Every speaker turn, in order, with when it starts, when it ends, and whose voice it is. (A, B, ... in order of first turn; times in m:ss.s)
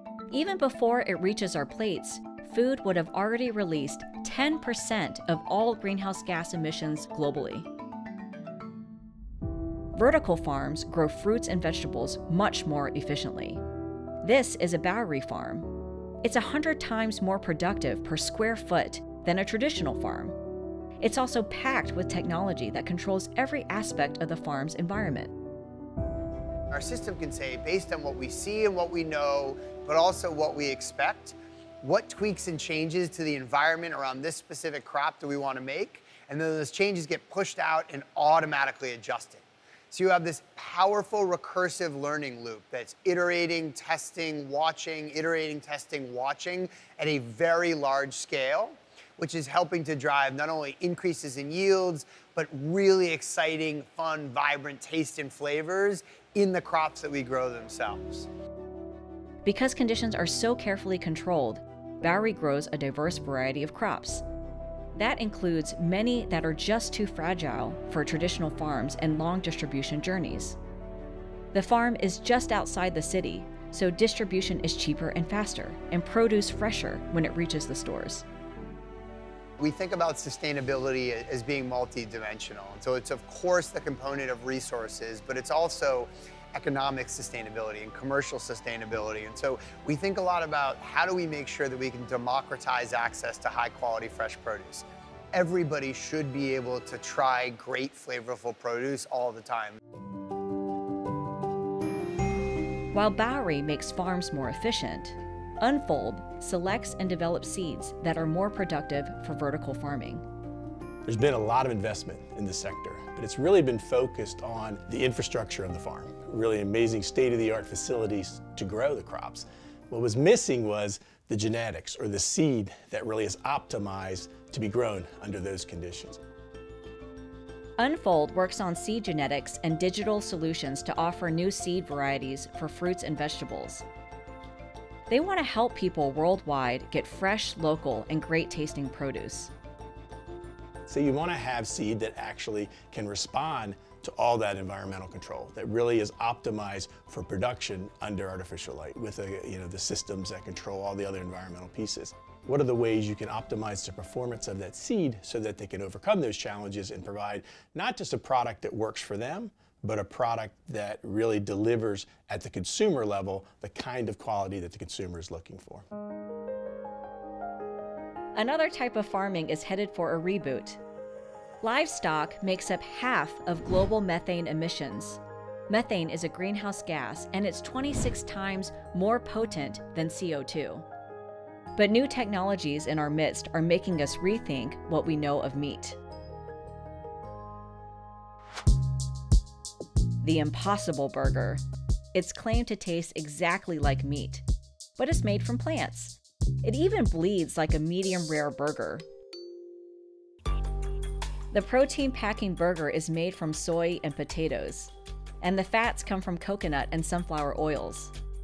0:00.3-0:07.7 A
0:09.9-0:13.6 A
0:14.2-0:15.7 A
0:16.2-0:20.3 A
0:21.0-0:25.3 A
0:26.7-0:58.3 B
0:59.4-1:04.2 A
1:04.9-1:10.6 A
1:11.5-1:18.2 A
1:19.6-1:39.8 B
1:42.9-1:50.2 A
1:51.0-2:06.2 C
2:07.8-2:13.8 A
2:15.1-2:19.5 A
2:20.8-2:45.8 C
2:48.3-2:50.8 A
2:51.6-3:00.8 A
3:01.8-3:06.0 A
3:10.2-3:11.6 A
3:12.1-3:14.4 A
3:15.0-3:19.0 A
3:21.5-3:28.1 A